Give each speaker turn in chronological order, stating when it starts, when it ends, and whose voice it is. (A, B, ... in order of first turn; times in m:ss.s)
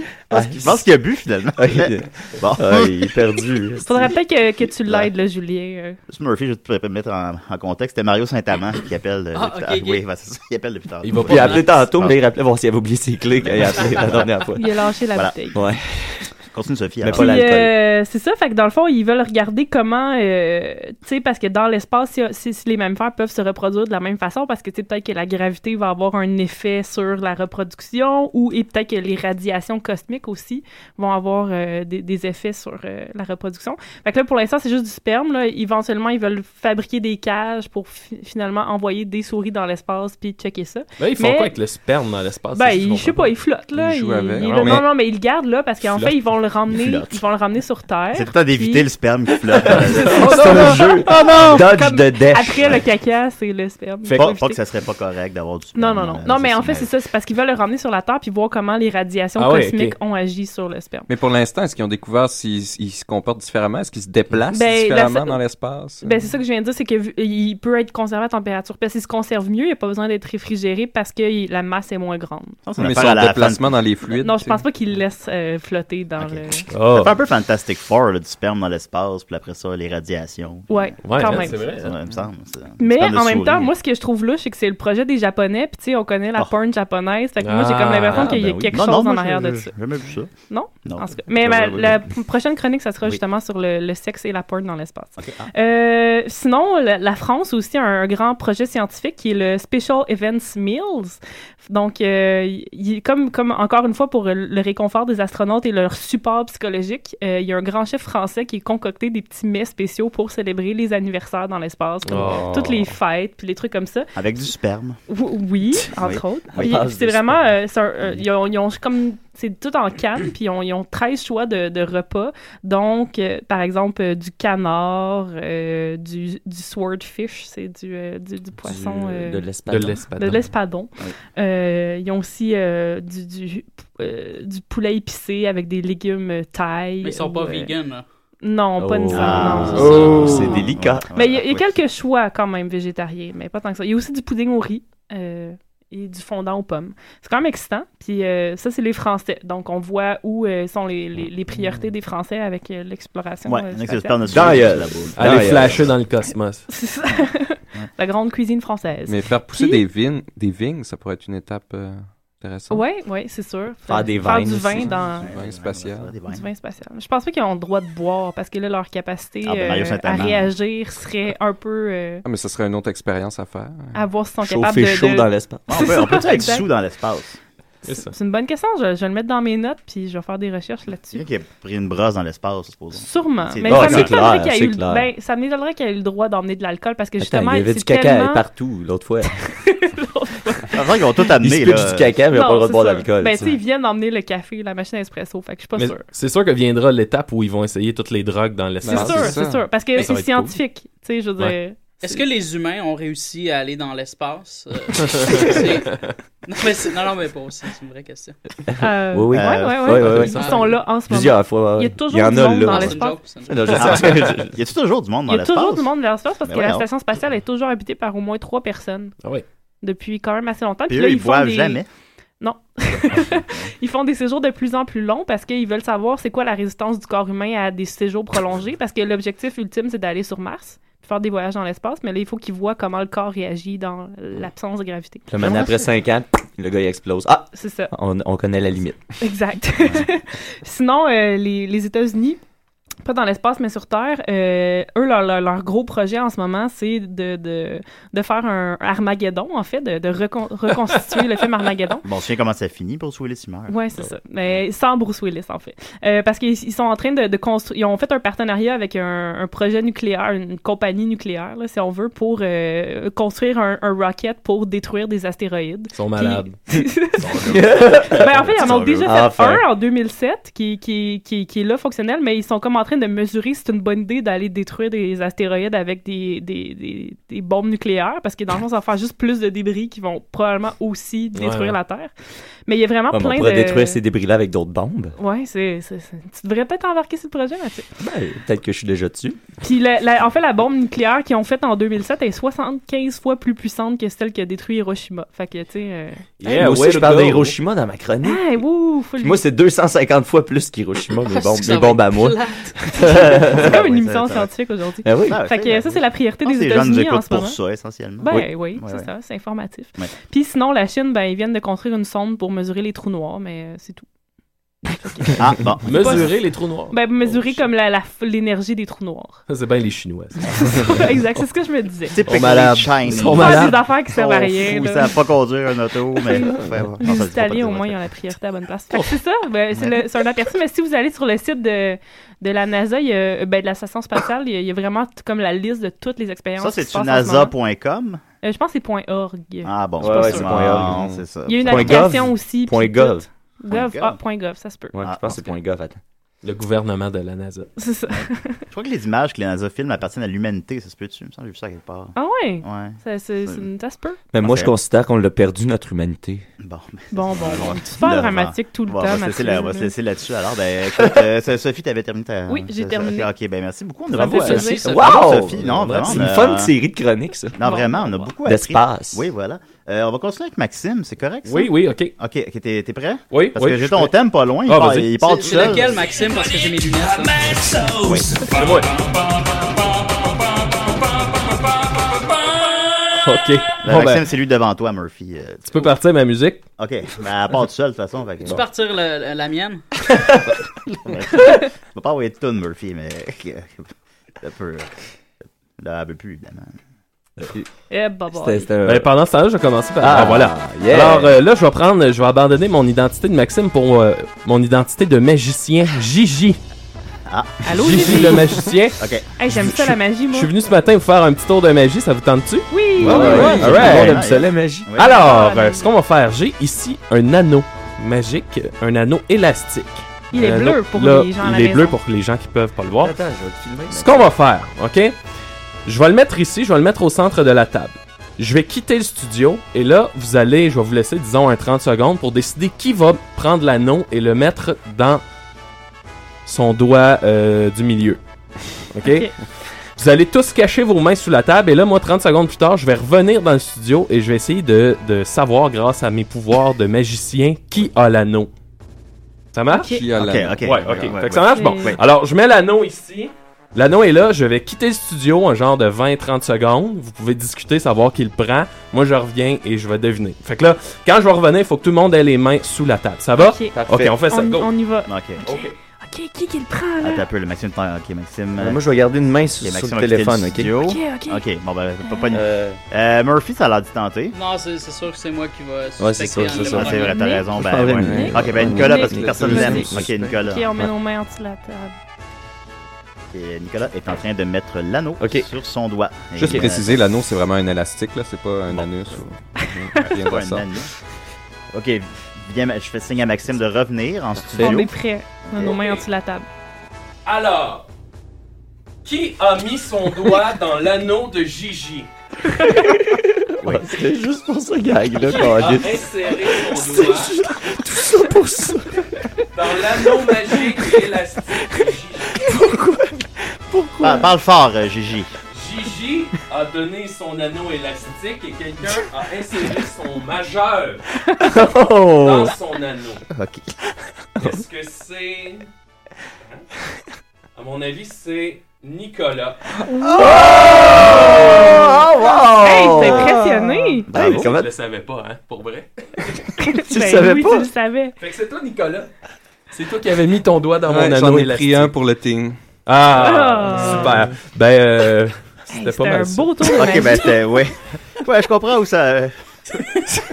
0:00.3-0:00.8 A
0:00.3-0:02.9 B
0:01.6-0:04.2 A
0:03.8-0:06.0 C
0:06.1-0:12.2 B
0:09.3-0:10.0 D
0:11.0-0:11.8 E
0:11.2-0:14.6 A
0:13.4-0:14.3 B
0:14.5-0:15.6 C
0:15.1-0:15.6 B
0:15.5-0:16.3 A
0:16.5-0:17.4 B
0:17.0-0:17.7 A
0:17.1-0:41.5 C
0:41.0-0:43.3 E
0:42.5-0:48.9 C
0:43.7-0:44.8 F
0:44.4-0:44.8 E
0:45.9-0:46.2 E
0:46.7-0:47.2 B
0:48.1-0:50.5 B
0:49.6-0:54.6 C
0:50.1-0:52.8 A
0:50.1-0:51.6 E
0:54.0-0:54.4 E
0:54.1-0:56.9 B
0:55.7-1:01.1 C
0:59.4-1:00.0 E
1:01.1-1:06.2 F
1:04.5-1:05.4 C
1:06.0-1:12.6 C
1:12.6-1:13.9 B
1:12.8-1:14.6 F
1:14.1-1:16.7 C
1:16.2-1:23.7 B
1:16.7-1:17.2 E
1:20.7-1:21.8 C
1:21.0-1:22.0 E
1:22.8-1:29.7 C
1:27.4-1:28.6 E
1:28.7-1:30.3 B
1:30.5-1:54.1 C
1:30.8-1:32.0 B
1:35.2-1:35.5 B
1:52.0-1:52.7 E
1:52.3-1:52.7 A
1:54.2-1:55.0 B
1:55.1-2:09.4 C
1:55.8-1:56.8 B
1:56.5-1:57.4 A
2:08.6-2:10.0 A
2:09.7-2:10.5 E
2:10.2-2:17.7 C
2:17.0-2:18.0 D
2:18.4-2:34.6 C
2:18.8-2:21.1 A
2:19.1-2:21.7 B
2:19.8-2:20.4 E
2:33.4-2:35.9 B
2:34.3-2:35.9 A
2:35.2-2:36.7 E
2:36.7-2:39.8 C
2:39.1-2:42.8 F
2:42.7-2:45.3 C
2:43.9-2:44.9 A
2:44.8-2:46.1 F
2:45.2-2:46.4 B
2:46.3-2:52.2 C
2:49.4-2:50.5 B
2:52.2-2:54.0 F
2:53.9-2:56.7 C
2:54.4-2:55.8 A
2:55.7-2:57.4 B
2:57.8-2:58.1 E
2:57.9-3:01.2 C
3:01.1-3:04.2 B
3:03.0-3:08.4 C
3:03.6-3:05.1 A
3:07.2-3:09.3 A
3:09.3-3:10.8 C
3:10.7-3:12.2 B
3:11.4-3:13.5 A
3:12.3-3:16.0 C
3:15.8-3:20.6 E
3:18.8-3:19.7 F
3:18.8-3:22.2 C
3:22.0-3:25.9 D
3:25.4-3:26.1 E
3:26.4-3:28.4 D
3:28.8-3:33.2 C
3:29.1-3:34.5 A
3:29.3-3:30.2 B
3:30.3-3:30.8 D
3:32.5-3:33.7 D
3:33.8-3:35.9 B
3:35.3-3:39.1 C
3:36.4-3:36.8 B
3:39.8-3:41.8 C
3:40.9-3:41.9 B
3:42.4-3:55.3 C
3:43.2-3:43.6 B
3:55.3-3:59.0 A
3:57.5-3:57.9 C
3:59.2-4:02.4 C
3:59.8-4:00.0 B
4:03.0-4:12.0 C
4:12.0-4:13.8 B
4:13.7-4:27.2 C
4:25.9-4:26.6 E
4:27.2-4:29.2 B
4:27.5-4:29.6 A
4:27.9-4:42.1 C
4:41.3-4:41.8 E
4:42.7-4:44.0 C
4:43.1-4:45.2 A
4:45.2-4:47.9 C
4:48.0-4:49.4 A
4:49.6-4:56.4 C
4:56.4-4:57.6 E
4:56.4-4:58.4 A
4:58.2-4:59.4 C
4:59.2-5:03.8 A
5:01.3-5:02.9 D
5:03.0-5:07.6 C
5:03.5-5:04.5 B
5:05.0-5:05.4 A
5:05.2-5:09.1 B
5:08.2-5:14.0 C
5:14.9-5:16.4 C
5:15.4-5:16.3 B
5:15.8-5:17.6 E
5:16.9-5:19.4 C
5:19.5-5:21.0 E
5:20.5-5:22.2 C
5:22.1-5:28.0 B
5:22.2-5:23.9 E
5:23.3-5:25.1 C
5:26.2-5:37.5 C
5:29.8-5:30.0 B
5:36.6-5:38.2 B
5:38.4-5:40.5 C
5:39.6-5:42.2 B
5:40.0-5:41.0 A
5:40.8-5:41.2 F
5:41.4-5:45.0 C
5:41.6-5:43.2 A
5:43.7-5:44.2 B
5:44.9-5:46.0 A
5:45.0-5:45.5 B
5:46.4-5:47.7 E
5:47.8-5:48.6 C
5:48.2-5:53.6 B
5:52.1-5:54.2 C
5:54.3-5:56.4 A
5:54.4-5:54.7 B
5:56.6-6:06.7 B
5:57.1-5:59.9 C
6:01.0-6:01.2 A
6:02.5-6:03.3 C
6:04.1-6:04.9 C
6:04.1-6:05.1 E
6:04.8-6:07.6 A
6:05.6-6:06.3 E
6:07.6-6:16.0 B
6:07.6-6:08.3 C
6:08.4-6:09.2 A
6:11.4-6:12.1 E
6:13.3-6:15.7 E
6:15.3-6:17.6 D
6:18.0-6:18.4 B
6:18.4-6:18.9 E
6:23.2-6:24.3 E
6:23.8-6:26.0 B
6:25.7-6:26.6 E
6:26.8-6:28.6 B
6:28.4-6:29.8 D
6:31.0-6:33.9 B
6:34.4-6:34.9 B
6:35.8-6:36.7 B
6:37.4-6:37.6 A
6:37.9-6:38.7 C
6:38.3-6:39.1 A
6:38.8-6:46.6 E
6:40.0-6:41.3 A
6:47.3-6:48.2 B
6:47.6-6:48.6 C
6:47.7-6:49.0 E
6:49.0-6:49.3 B
6:49.4-6:50.5 C
6:49.6-6:54.2 E
6:52.7-6:53.8 C
6:53.0-6:54.9 A
6:53.2-6:53.7 F
6:53.3-6:55.2 B
6:55.0-7:03.1 E
6:55.0-6:55.9 C
7:00.3-7:02.0 C
7:03.0-7:04.3 A
7:03.9-7:05.2 E
7:05.8-7:15.2 E
7:16.4-7:18.2 E
7:18.9-7:19.3 E
7:19.0-7:19.3 C
7:20.0-7:28.5 E
7:29.5-7:30.0 E
7:29.7-7:30.0 C
7:29.9-7:31.2 F
7:30.2-7:32.0 B
7:30.6-7:44.7 E
7:31.5-7:32.0 C
7:43.4-7:43.8 C
7:43.7-7:44.2 A
7:44.3-7:47.2 C
7:45.1-7:45.4 B
7:45.4-7:45.7 E
7:47.0-7:48.8 B
7:48.6-7:50.7 A
7:49.6-7:54.3 B
7:50.8-7:51.4 C
7:52.0-7:52.4 C
7:52.3-7:52.8 A
7:54.3-7:57.2 D
7:56.0-7:57.0 A
7:56.5-8:00.7 B
7:56.6-7:57.5 C
7:57.7-8:00.4 F
7:58.0-8:01.9 C
7:59.7-8:00.1 A
8:03.3-8:07.0 B
8:05.2-8:05.5 A
8:06.4-8:10.7 F
8:10.0-8:10.9 B
8:11.7-8:14.9 B
8:14.6-8:16.4 C
8:15.5-8:15.8 B
8:15.7-8:16.0 E
8:17.2-8:17.8 E
8:19.0-8:22.1 E
8:22.8-8:29.0 A
8:25.2-8:27.4 E
8:29.5-8:32.4 E
8:32.4-8:34.3 A
8:34.0-8:35.3 B
8:35.5-8:41.0 E
8:41.4-8:42.5 A
8:42.1-8:43.2 E
8:43.3-8:43.7 B
8:44.4-8:45.7 E
8:47.5-8:49.6 E
8:50.0-8:54.7 A
8:52.4-8:54.1 C
8:54.1-8:54.5 B
8:54.2-8:56.5 E
8:56.6-8:58.2 C
8:56.8-8:57.7 A
8:58.2-8:59.1 E
8:59.7-9:01.9 E
9:00.8-9:02.6 F
9:02.8-9:07.0 E
9:03.2-9:04.2 C
9:05.7-9:07.3 C
9:06.7-9:09.3 B